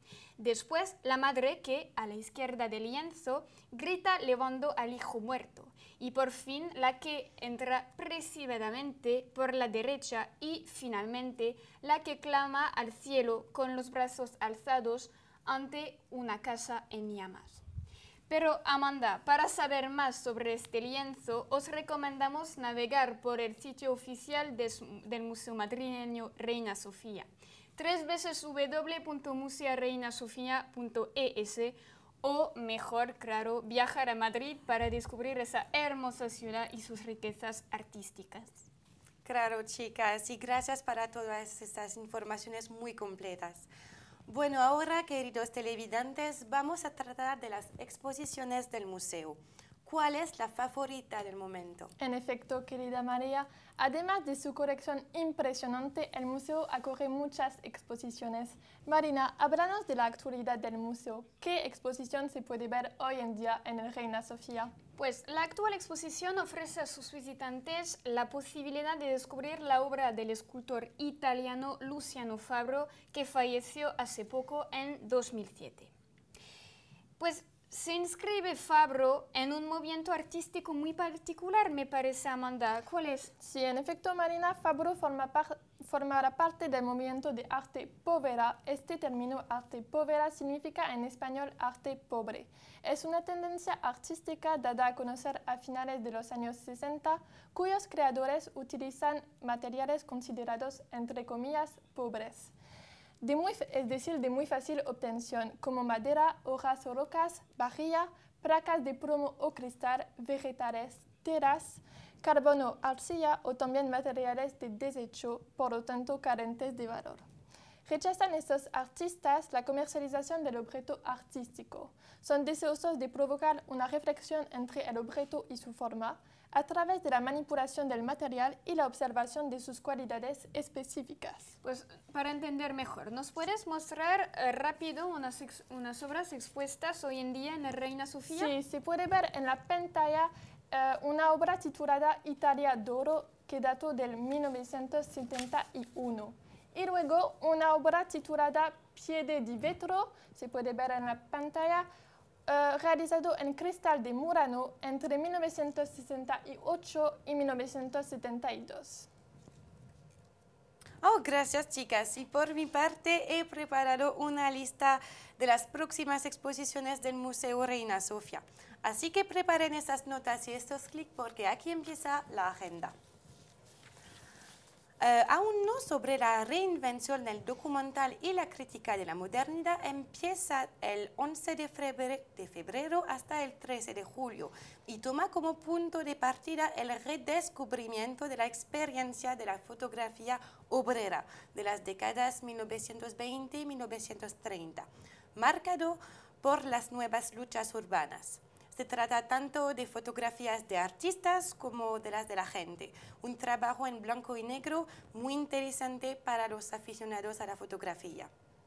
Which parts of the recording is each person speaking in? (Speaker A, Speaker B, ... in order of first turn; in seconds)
Speaker A: 0.4-17.6, 18.3-38.7, 65.0-75.9, 77.2-83.3, 131.6-138.5
Speaker B: 39.2-43.7, 44.3-51.9, 161.0-172.9, 175.0-208.3
Speaker C: 52.0-64.7, 83.4-102.5, 103.2-117.2, 117.9-131.5, 138.3-151.9, 152.5-159.1